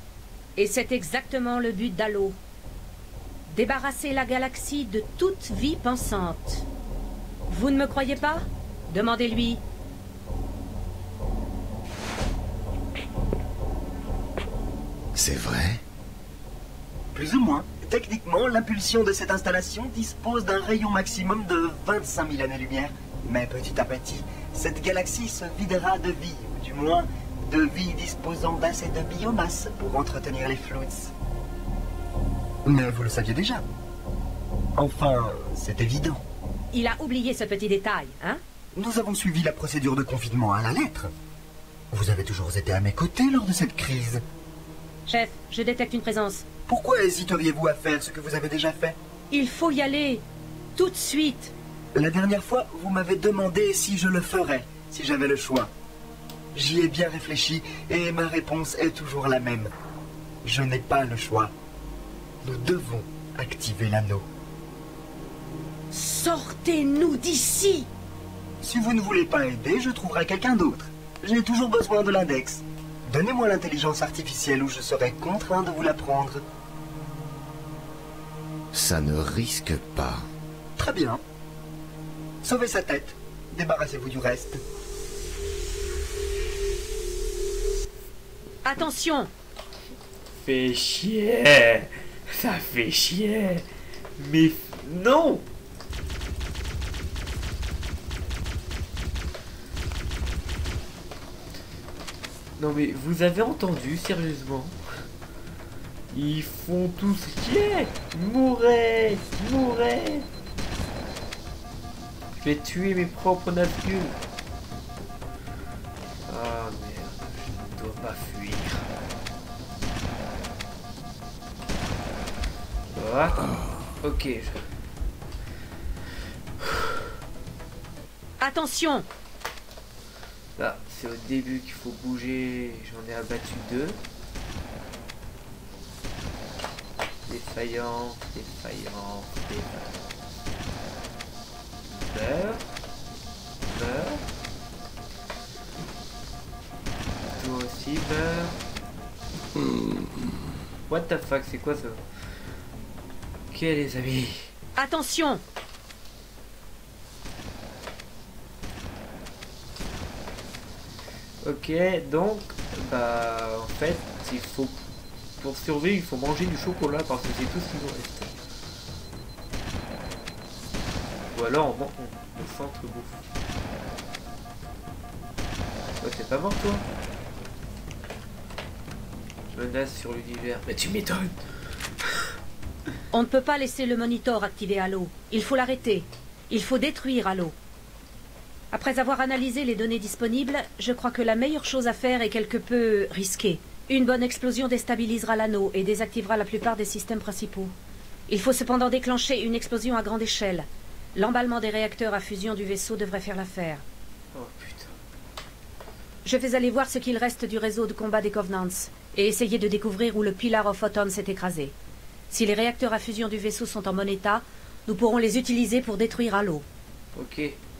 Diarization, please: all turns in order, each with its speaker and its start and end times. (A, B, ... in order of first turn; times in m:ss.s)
0:00.6-0:02.4 A
0:03.5-0:06.6 A
0:07.5-0:09.6 A
0:15.1-0:15.8 B
0:17.1-0:31.1 C
0:32.6-0:33.6 C
0:34.8-0:36.2 C
0:36.7-0:38.4 A
0:38.7-0:41.1 C
0:41.9-0:44.2 C
0:45.1-0:46.4 A
0:46.7-0:49.0 C
0:49.3-0:50.2 A
0:50.8-0:51.5 A
0:51.9-0:55.7 C
0:56.5-0:59.7 C
1:00.4-1:01.5 C
1:02.4-1:04.3 C
1:05.9-1:07.9 A
1:08.6-1:16.4 C
1:18.7-1:20.3 B
1:20.8-1:21.2 C
1:22.4-1:24.6 C
1:28.6-1:29.3 A
1:30.4-1:33.7 D
1:34.2-1:35.4 D
1:42.6-1:44.8 D
1:46.1-1:50.3 D
1:52.4-1:54.2 D
1:56.3-1:58.9 D
2:02.9-2:04.7 D
2:06.6-2:06.9 D
2:08.4-2:09.1 A
2:10.6-2:14.0 D
2:17.3-2:20.1 D
2:21.9-2:22.7 D
2:23.7-2:24.2 D
2:27.3-2:28.6 D
2:30.9-2:32.6 D
2:33.5-2:34.5 D
2:34.8-2:35.4 A
2:41.4-2:44.8 D
2:45.4-2:48.4 D
2:51.3-2:53.2 D
2:56.0-2:56.8 D
2:59.5-3:01.4 D
3:03.1-3:07.6 A
3:08.7-3:17.7 A
3:18.3-3:23.8 A
3:24.3-3:24.9 D
3:26.2-3:31.7 A
3:32.3-3:36.7 A
3:37.1-3:37.6 D